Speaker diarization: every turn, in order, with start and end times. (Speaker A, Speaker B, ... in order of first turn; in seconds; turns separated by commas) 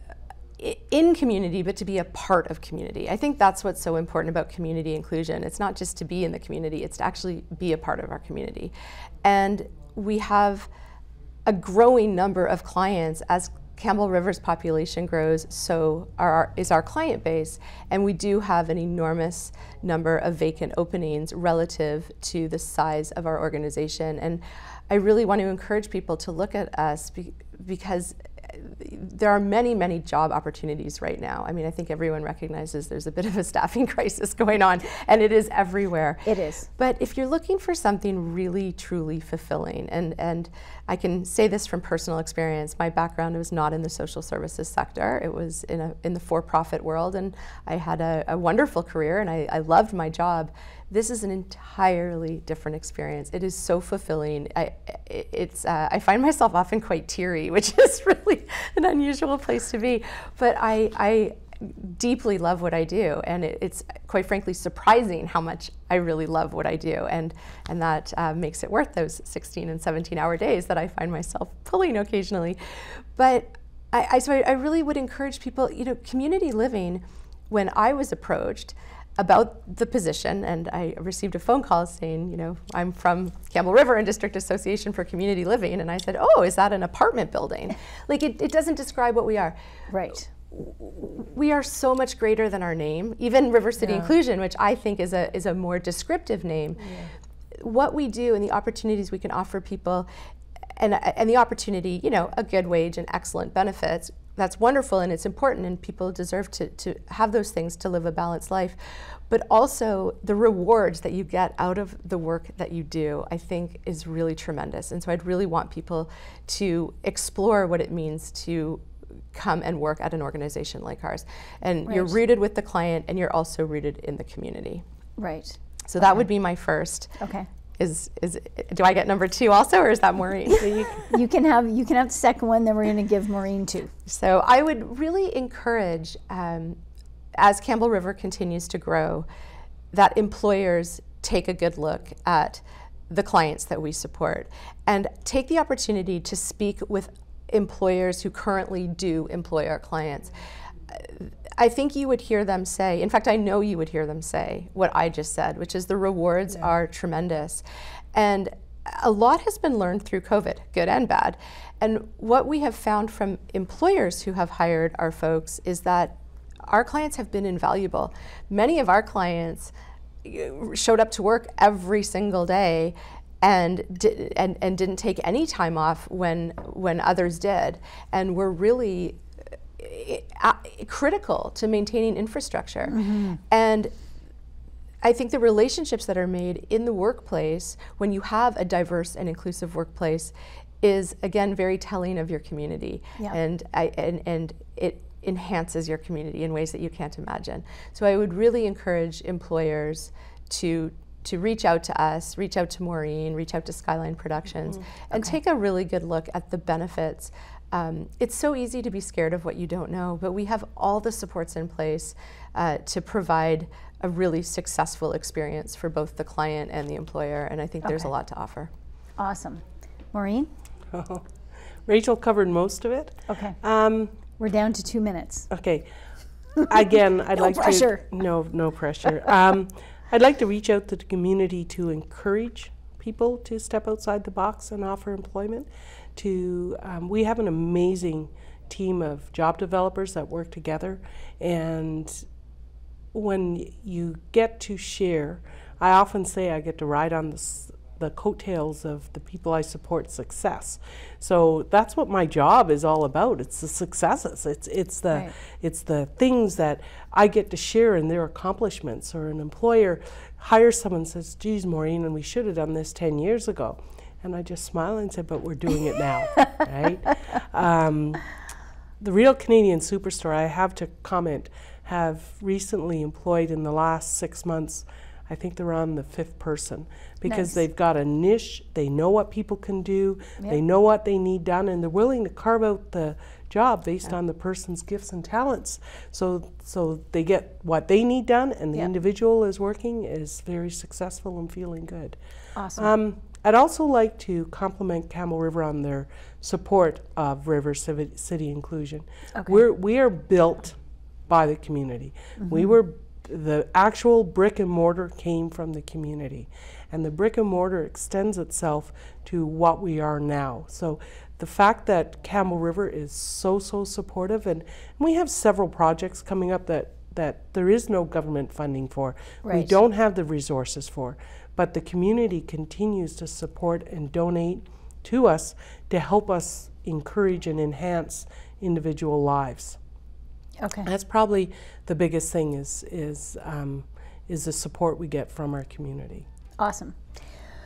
Speaker A: 0.6-8.7, Speaker A: 9.2-10.7, Speaker A: 11.4-89.6, Speaker B: 36.2-36.7, Speaker B: 89.9-90.2, Speaker A: 90.5-97.0, Speaker A: 97.6-100.1, Speaker A: 100.8-108.8, Speaker A: 109.3-124.8, Speaker B: 121.9-122.2, Speaker B: 125.2-125.6, Speaker A: 125.9-127.2, Speaker B: 127.2-127.5, Speaker A: 127.8-131.1, Speaker B: 131.1-133.9, Speaker A: 134.1-136.8, Speaker A: 137.3-139.2, Speaker A: 139.9-150.3, Speaker A: 150.9-169.7, Speaker A: 170.2-179.2, Speaker A: 179.8-183.9, Speaker B: 182.9-183.4, Speaker A: 185.0-218.7, Speaker B: 219.2-220.5, Speaker C: 220.9-221.3, Speaker C: 221.8-224.2, Speaker B: 223.3-223.6, Speaker B: 224.4-225.5, Speaker C: 225.5-225.9, Speaker C: 226.7-242.2, Speaker B: 227.3-228.0, Speaker C: 243.1-268.2, Speaker C: 269.0-292.1, Speaker B: 277.2-277.6, Speaker B: 292.6-292.9, Speaker C: 292.8-300.8, Speaker B: 299.3-299.6, Speaker C: 301.3-329.8, Speaker B: 302.4-302.7, Speaker B: 319.4-319.8, Speaker B: 330.6-330.9, Speaker C: 330.8-336.3, Speaker B: 336.6-337.0